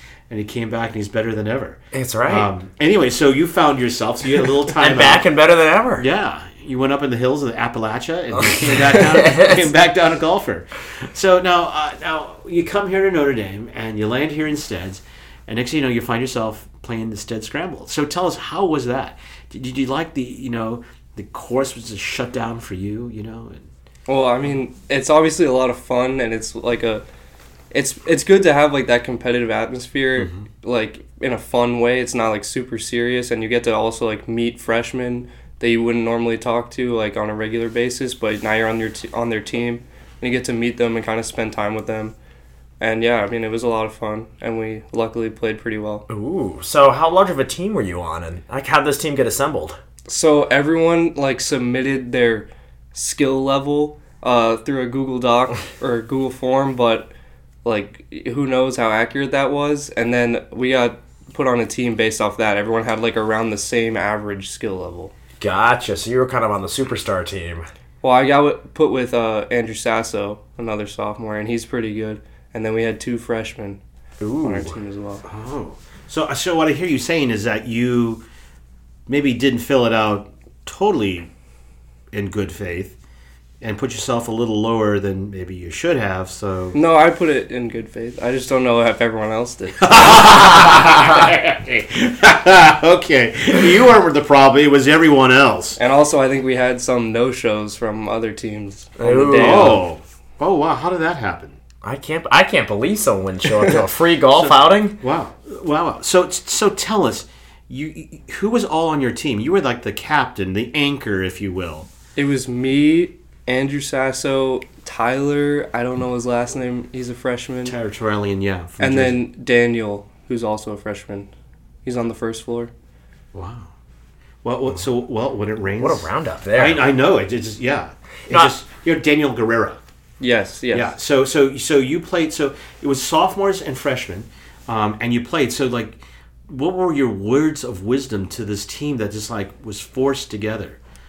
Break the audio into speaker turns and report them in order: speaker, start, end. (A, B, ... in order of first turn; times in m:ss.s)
0:00.3-0:05.3 A
0:01.9-0:02.5 B
0:04.8-0:06.0 B
0:06.0-0:23.7 A
0:08.4-0:09.7 B
0:24.1-0:27.0 C
0:27.7-0:42.2 C
0:42.8-0:46.0 C
0:46.1-0:49.8 B
0:50.1-0:57.1 C
0:57.6-1:05.1 C
1:05.4-1:07.7 B
1:08.0-1:13.8 C
1:14.2-1:14.8 B
1:14.4-1:15.2 C
1:15.3-1:18.2 A
1:19.1-1:21.3 A
1:22.1-1:23.0 A
1:23.6-1:26.8 A
1:26.7-1:30.5 C
1:29.8-1:35.8 A
1:35.8-1:39.8 C
1:39.0-1:39.8 B
1:39.4-1:41.6 A
1:41.8-1:45.0 B
1:44.4-1:51.9 A
1:52.2-1:57.8 C
1:57.7-1:59.2 A
1:58.8-2:01.3 C
2:01.8-2:02.7 C
2:03.3-2:03.7 A
2:04.4-2:09.8 A
2:05.8-2:06.8 B
2:10.2-2:10.9 C
2:10.7-2:20.8 A